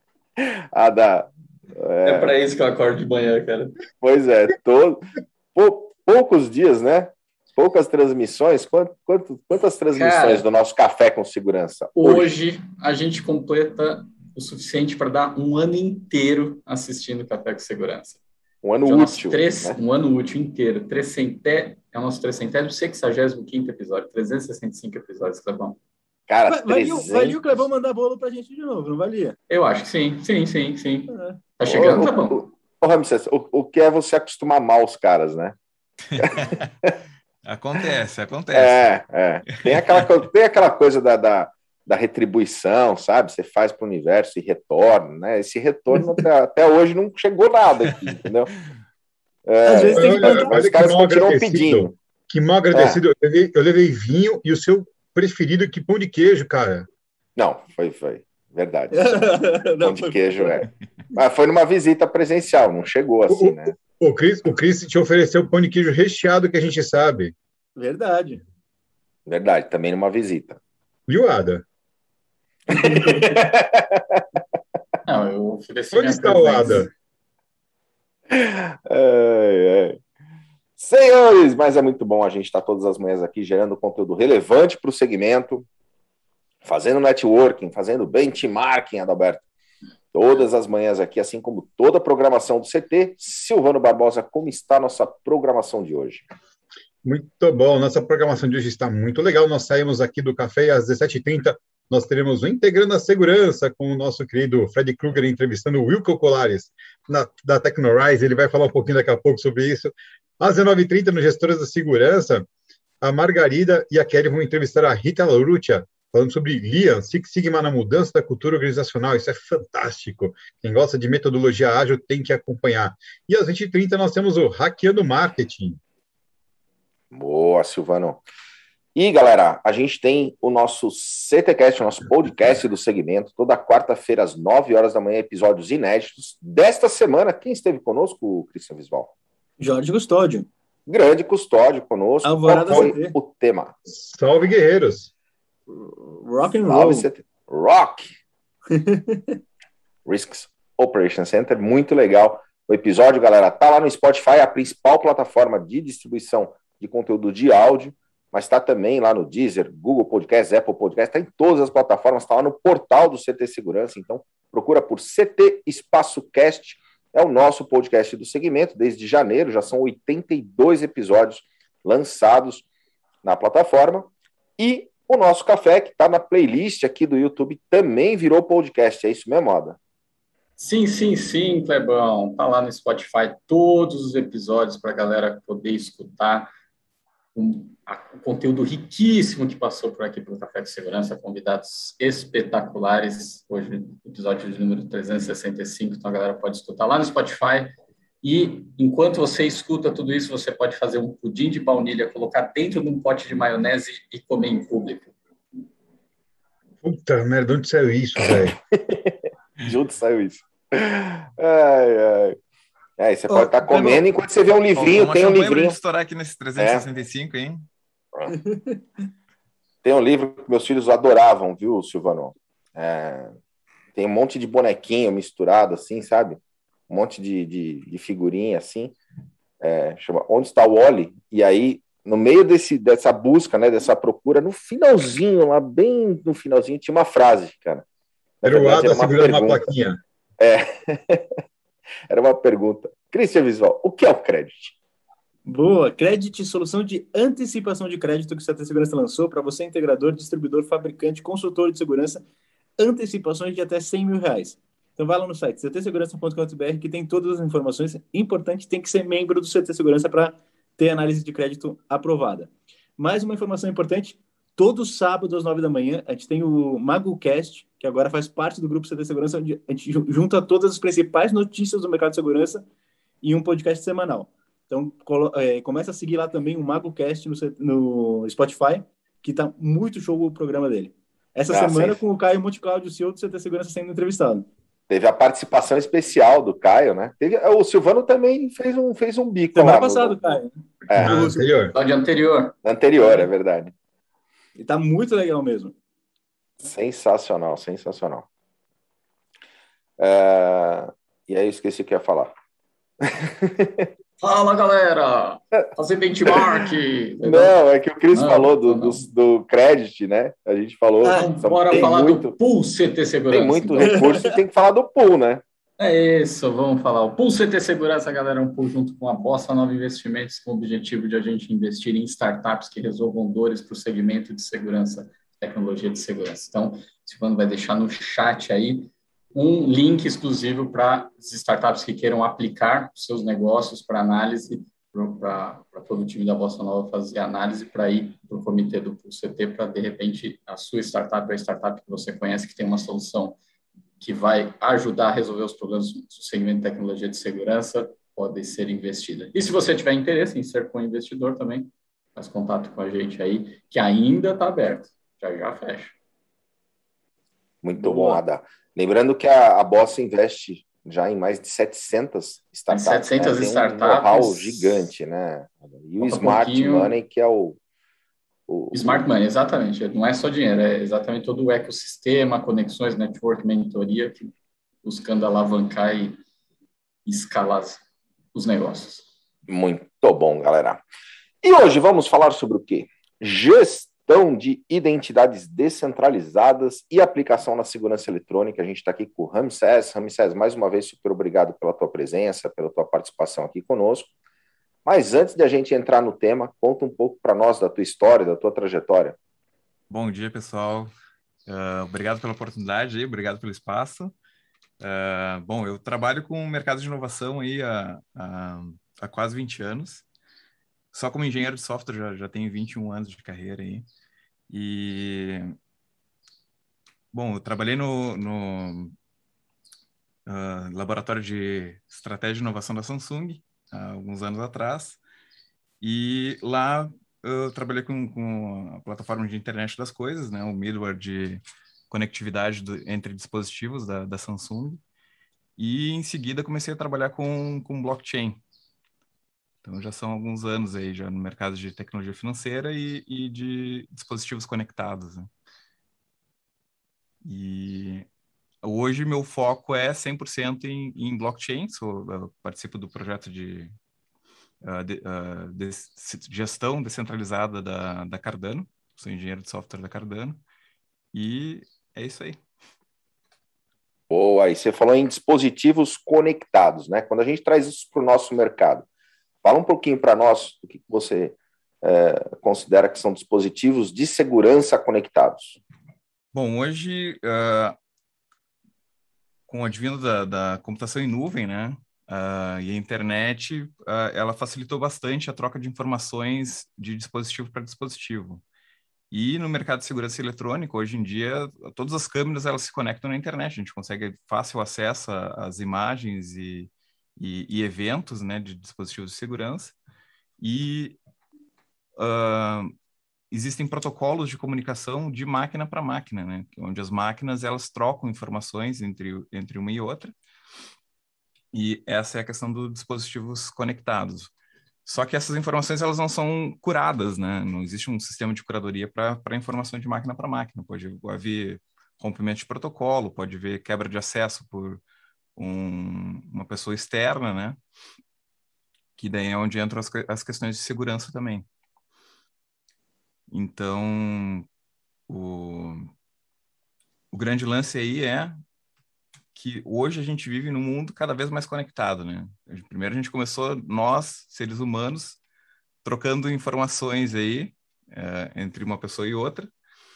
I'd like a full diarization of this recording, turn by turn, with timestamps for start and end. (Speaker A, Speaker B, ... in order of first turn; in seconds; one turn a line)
Speaker A: 0.4-2.3
Speaker B: 2.0-3.8
Speaker A: 4.0-12.3
Speaker B: 9.9-10.4
Speaker B: 12.0-18.2
Speaker A: 18.6-19.8
Speaker B: 18.8-25.8
Speaker A: 26.3-27.6
Speaker C: 26.5-29.4
Speaker B: 29.5-32.5
Speaker C: 31.1-31.4
Speaker A: 31.6-35.6
Speaker D: 36.1-36.7
Speaker A: 36.2-37.0
Speaker D: 37.5-38.9
Speaker A: 38.5-48.5
Speaker D: 39.6-40.1
Speaker A: 49.5-51.9
Speaker C: 49.6-50.6
Speaker E: 50.0-56.9
Speaker A: 52.7-53.0
Speaker A: 57.4-63.7
Speaker C: 58.9-60.6
Speaker E: 63.3-67.3
Speaker C: 67.8-68.4
Speaker A: 69.3-70.6
Speaker E: 71.1-71.6
Speaker A: 72.7-74.4
Speaker B: 75.0-76.9
Speaker E: 75.9-76.9
Speaker A: 78.3-80.0
Speaker A: 80.8-85.7
Speaker A: 86.6-89.5
Speaker A: 90.1-96.3
Speaker E: 97.0-112.5
Speaker E: 113.0-125.8
Speaker A: 127.1-128.2
Speaker A: 128.9-139.1
Speaker C: 139.6-140.5
Speaker A: 140.9-143.7
Speaker C: 142.2-143.2
Speaker E: 143.9-145.1
Speaker C: 145.7-147.1
Speaker A: 146.7-148.1
Speaker C: 148.7-149.4
Speaker A: 150.1-172.7
Speaker A: 173.2-179.8
Speaker B: 180.6-186.5
Speaker B: 187.3-205.1
Speaker E: 206.8-208.6
Speaker A: 208.8-212.4
Speaker A: 213.0-215.8
Speaker C: 213.3-214.1
Speaker D: 214.8-217.7
Speaker A: 216.6-216.8
Speaker C: 218.3-218.8
Speaker A: 219.8-223.4
Speaker A: 223.9-228.9
Speaker A: 229.6-237.8
Speaker A: 238.4-239.6
Speaker E: 238.4-240.0
Speaker A: 240.4-241.2
Speaker A: 242.1-244.8
Speaker C: 245.5-252.2
Speaker C: 252.8-272.6
Speaker C: 273.2-284.5
Speaker A: 281.5-282.0
Speaker A: 284.9-290.2
Speaker C: 289.6-291.5
Speaker A: 290.9-291.3
Speaker E: 290.9-291.7
Speaker B: 291.7-292.6
Speaker A: 292.6-293.7
Speaker C: 293.0-293.2
Speaker C: 294.6-295.8
Speaker A: 296.6-298.3
Speaker A: 300.0-302.3
Speaker A: 303.0-303.9
Speaker B: 304.2-307.6
Speaker A: 307.2-312.4
Speaker B: 308.1-309.1
Speaker C: 311.0-311.3
Speaker B: 311.1-314.1
Speaker A: 313.3-315.4
Speaker C: 313.9-314.3
Speaker B: 315.8-343.4
Speaker B: 344.0-356.0
Speaker A: 357.6-367.6
Speaker B: 362.7-364.9
Speaker B: 366.0-367.0
Speaker A: 368.5-369.0
Speaker B: 368.7-376.2
Speaker B: 377.1-377.8
Speaker B: 378.3-379.1
Speaker A: 379.5-380.8
Speaker A: 381.4-394.1
Speaker A: 394.9-399.2
Speaker D: 399.9-400.9
Speaker D: 401.5-404.1
Speaker D: 404.8-410.1
Speaker D: 410.9-413.9
Speaker D: 414.5-415.6
Speaker D: 417.1-418.9
Speaker D: 420.3-425.0
Speaker D: 425.8-434.8
Speaker D: 435.6-438.4
Speaker D: 439.6-445.3
Speaker D: 447.2-448.1
Speaker D: 448.6-453.7
Speaker D: 454.6-460.4
Speaker D: 461.1-462.4
Speaker A: 464.1-468.9
Speaker A: 469.4-475.6
Speaker D: 476.3-477.8
Speaker D: 479.5-488.4
Speaker D: 489.1-499.8
Speaker D: 500.4-501.0
Speaker D: 502.0-502.7
Speaker D: 503.3-510.1
Speaker D: 511.5-514.3
Speaker D: 514.9-524.8
Speaker D: 525.4-527.6
Speaker D: 529.0-531.5
Speaker D: 533.3-534.5
Speaker D: 535.1-535.9
Speaker D: 537.1-538.4
Speaker D: 539.4-545.2
Speaker D: 545.8-549.5